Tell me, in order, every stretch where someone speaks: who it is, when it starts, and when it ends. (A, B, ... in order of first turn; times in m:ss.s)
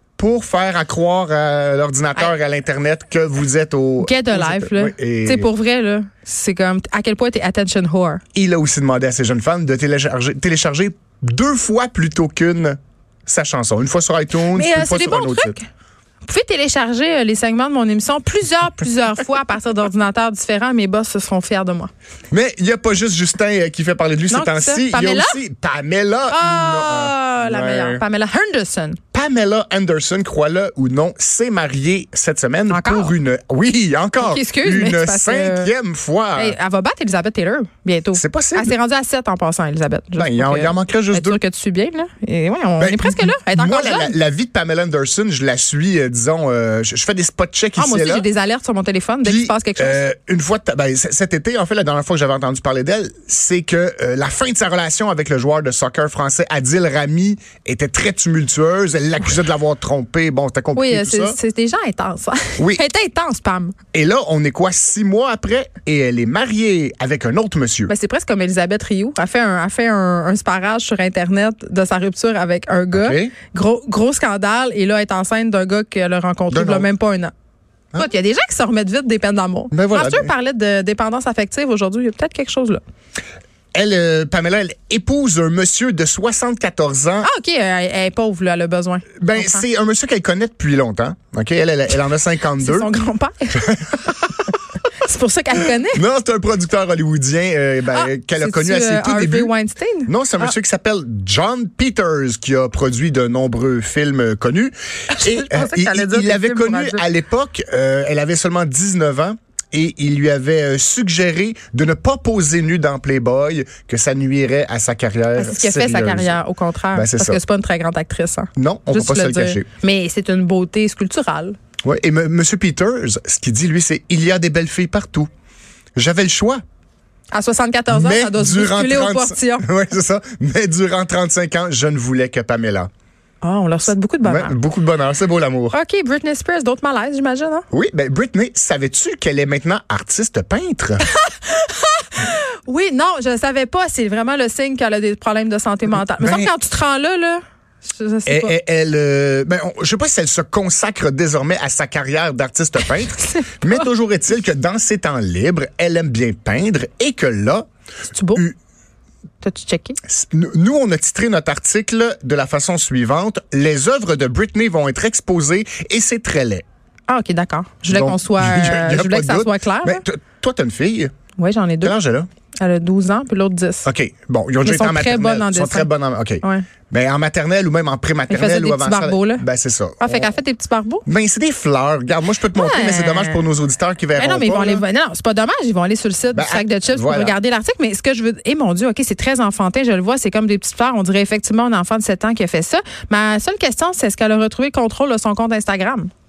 0:00.2-0:05.5 A
0:04.0-0:08.2 B
0:08.3-0:15.6 A
0:14.5-0:15.7 B
0:16.3-0:21.9 B
0:22.3-0:28.0 A
0:24.3-0:25.4 B
0:26.3-0:29.0 B
0:29.1-0:36.6 A
0:32.7-0:33.2 B
0:34.2-0:35.7 B
0:36.4-0:44.2 B
0:38.1-0:38.8 A
0:40.2-0:41.4 A
0:42.8-0:48.3 A
0:47.8-0:50.0 B
0:49.2-1:01.4 A
1:00.8-1:03.8 B
1:02.6-1:02.8 A
1:03.9-1:07.9 A
1:07.9-1:17.3 B
1:12.9-1:13.4 A
1:16.5-1:16.9 A
1:18.0-1:22.8 B
1:19.7-1:20.3 A
1:23.7-1:27.3 A
1:27.2-1:29.6 B
1:29.2-1:32.9 A
1:32.6-1:36.0 B
1:33.7-1:34.1 A
1:35.9-1:39.5 A
1:37.9-1:40.5 B
1:40.1-1:56.4 A
1:45.1-1:47.1 B
1:55.3-2:01.6 B
1:56.9-1:57.4 A
1:58.6-1:59.7 A
2:01.8-2:05.3 A
2:06.0-2:06.6 A
2:07.3-2:09.7 B
2:07.9-2:12.9 A
2:13.4-2:14.6 B
2:14.2-2:15.8 A
2:15.7-2:17.7 B
2:17.7-2:21.0 A
2:21.1-2:28.6 B
2:25.9-2:26.5 A
2:28.3-2:37.7 A
2:33.2-2:33.8 B
2:38.1-2:38.4 B
2:39.4-2:40.0 B
2:40.0-2:46.6 A
2:47.1-2:50.0 B
2:47.9-2:51.1 A
2:51.4-2:52.0 B
2:51.8-2:52.3 A
2:52.6-2:53.9 B
2:53.8-3:00.3 A
2:54.6-2:55.9 B
2:56.4-2:56.7 B
2:58.3-2:59.5 B
3:00.0-3:01.0 B
3:01.1-3:04.8 A
3:02.5-3:03.5 B
3:04.2-3:16.1 B
3:06.3-3:07.4 A